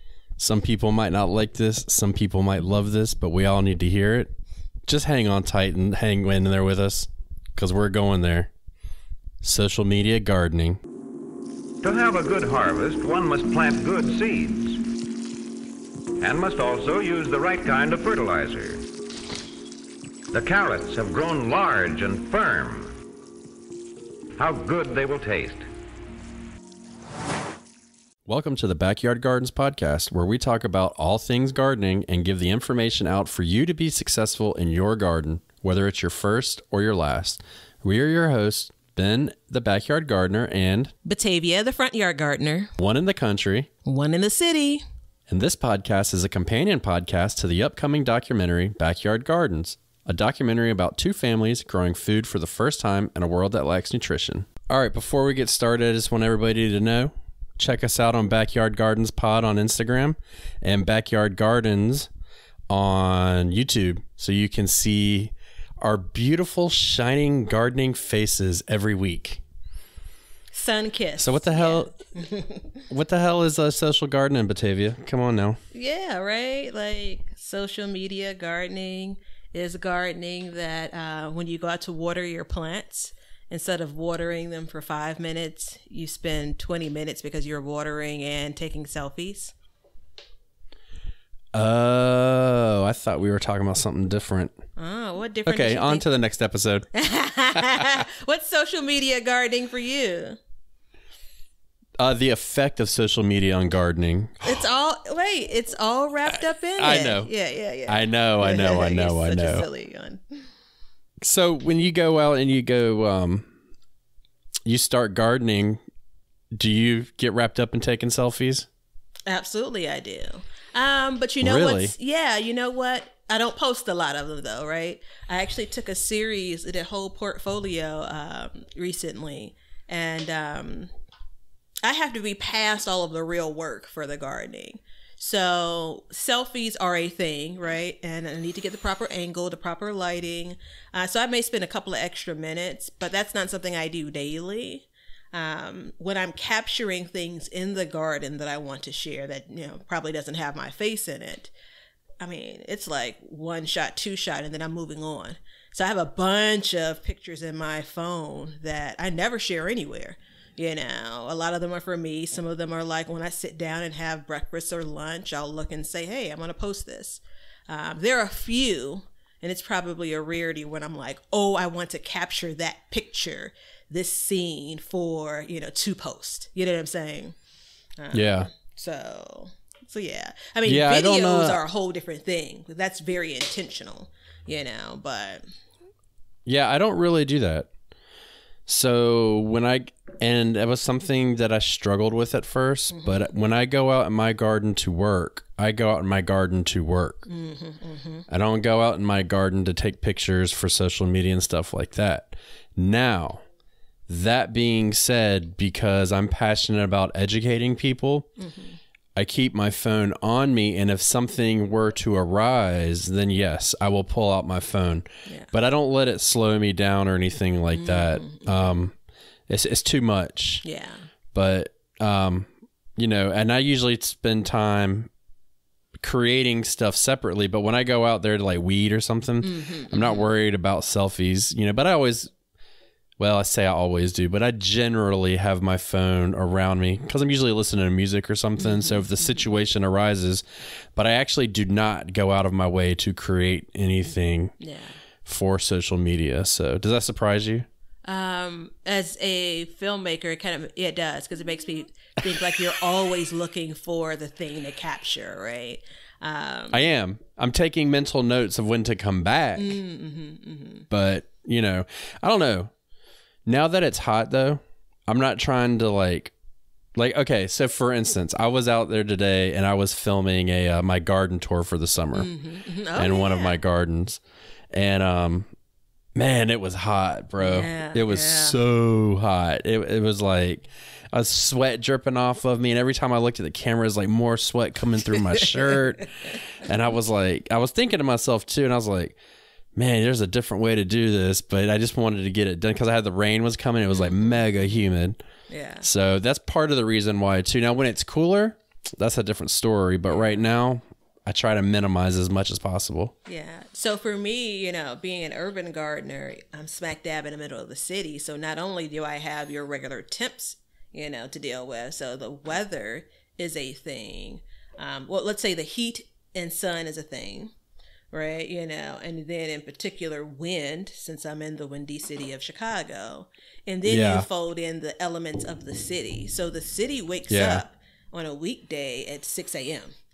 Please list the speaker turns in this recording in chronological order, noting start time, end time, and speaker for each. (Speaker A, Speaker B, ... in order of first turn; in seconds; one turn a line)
Speaker A: 0.4-4.3
Speaker A: 4.9-8.5
Speaker A: 9.4-10.8
Speaker B: 11.8-14.8
Speaker B: 16.2-18.8
Speaker B: 20.3-22.9
Speaker B: 24.4-25.7
Speaker A: 28.3-40.9
Speaker C: 41.0-42.8
Speaker A: 42.8-43.7
Speaker C: 43.8-44.8
Speaker A: 45.3-62.1
Speaker A: 62.7-69.4
Speaker C: 70.5-72.7
Speaker A: 71.2-71.9
Speaker A: 72.9-75.6
Speaker C: 75.7-89.5
Speaker A: 91.5-94.6
Speaker C: 94.8-96.1
Speaker A: 95.5-96.9
Speaker C: 96.9-100.4
Speaker A: 102.0-104.5
Speaker C: 104.4-110.5
Speaker A: 106.8-107.3
Speaker A: 107.9-109.7
Speaker A: 111.2-113.5
Speaker A: 114.7-115.8
Speaker A: 116.5-118.7
Speaker C: 119.3-130.9
Speaker A: 121.4-121.9
Speaker C: 131.8-151.5
Speaker C: 152.2-177.3
Speaker C: 178.0-185.4
Speaker A: 178.1-178.5
Speaker A: 180.7-181.6
Speaker A: 186.5-187.7
Speaker A: 188.7-197.3
Speaker C: 192.9-193.2
Speaker C: 197.3-198.2
Speaker A: 198.3-203.4
Speaker A: 204.1-208.3
Speaker C: 208.4-208.8
Speaker A: 209.2-218.9
Speaker C: 217.7-218.4
Speaker A: 219.5-220.7
Speaker C: 220.6-221.1
Speaker A: 221.3-225.1
Speaker A: 226.0-232.3
Speaker C: 229.4-230.3
Speaker A: 233.2-240.4
Speaker C: 238.6-239.3
Speaker A: 240.9-244.5
Speaker C: 244.6-244.9
Speaker A: 245.2-247.7
Speaker C: 248.1-256.8
Speaker A: 256.7-259.8
Speaker C: 259.6-260.9
Speaker A: 260.9-262.7
Speaker A: 263.4-266.3
Speaker A: 266.9-272.3
Speaker C: 272.1-273.5
Speaker A: 272.9-274.2
Speaker A: 274.7-275.5
Speaker A: 276.1-289.1
Speaker C: 277.4-278.6
Speaker A: 289.7-295.2
Speaker C: 293.9-294.2
Speaker C: 295.5-295.8
Speaker A: 295.8-303.1
Speaker C: 303.2-317.5
Speaker C: 318.1-329.9
Speaker A: 323.9-324.2
Speaker A: 327.3-327.6